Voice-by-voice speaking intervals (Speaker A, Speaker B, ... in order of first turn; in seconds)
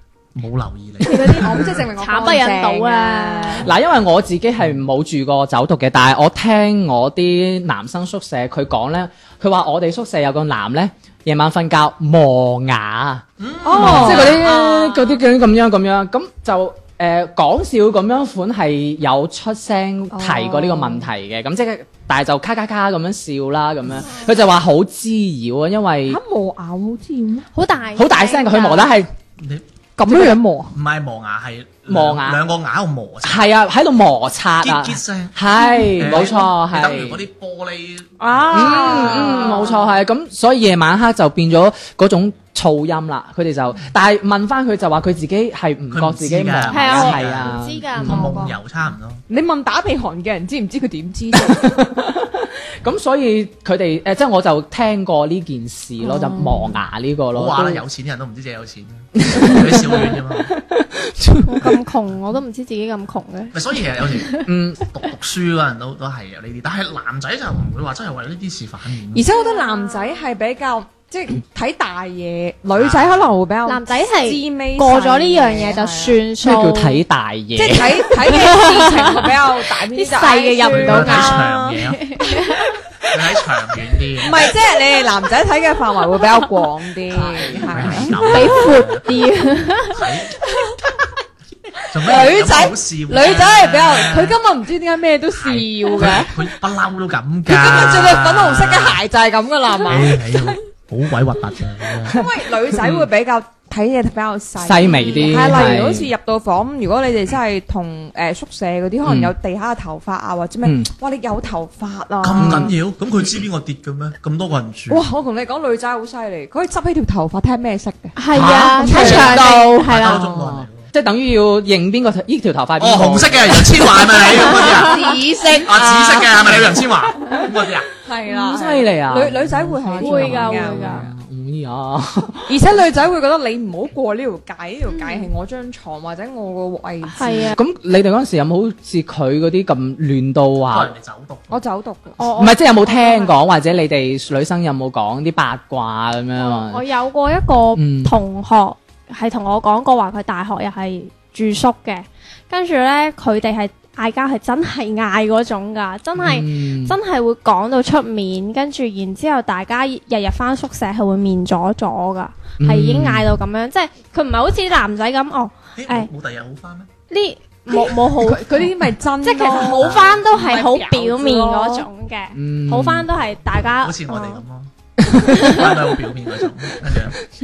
Speaker A: 0.3-1.9, 13.4-14.4, 29.4-33.5, 34.6-35.4, 36.0-39.5, 45.9-49.2, 57.3-60.5, 63.5-69.3, 72.7-73.3, 80.7-82.0, 83.1-84.5, 87.3-89.1, 89.9-90.4, 91.9-94.4, 95.3-99.0, 99.8-102.2, 112.2-115.1, 118.3-120.9, 122.8-127.9, 140.7-141.6, 165.8-166.9, 169.8-170.3, 173.8-177.2
Speaker B: 1.0-3.7, 13.6-14.5, 20.1-21.1, 26.1-27.5, 30.0-30.7, 35.5-36.2, 38.2-39.9, 48.0-48.6, 49.3-51.8, 56.0-56.8, 69.1-76.2, 77.5-82.6, 84.2-88.7, 91.9-96.4, 97.5-100.6, 102.0-112.7, 114.9-118.2, 118.8-119.7, 124.3-126.6, 128.0-131.1, 132.5-137.6, 141.5-142.2, 167.7-171.8
Speaker C: 1.0-3.6, 14.3-14.8, 27.5-28.9, 46.7-48.4, 61.4-64.5, 69.3-70.3, 73.7-77.0, 78.2-82.7, 88.2-90.1, 105.0-105.6, 118.2-120.3, 124.3-125.2, 130.0-131.1, 134.9-135.3, 137.1-137.6, 142.2-143.3, 146.4-166.1, 167.1-174.4, 175.2-175.9
Speaker D: 3.6-13.2, 13.8-26.2, 27.9-29.1, 31.9-32.4, 33.2-37.2, 38.5-48.2, 51.4-57.8, 59.2-61.8, 64.5-64.8, 76.4-78.2, 87.7-88.0, 102.7-103.1, 104.6-106.1, 109.0-109.3, 110.6-110.9, 112.4-112.7, 118.9-124.0, 128.3-132.5, 137.6-140.9, 142.4-146.8, 147.8-148.1, 156.2-156.9, 162.6-163.3, 172.3-173.1, 175.1-175.3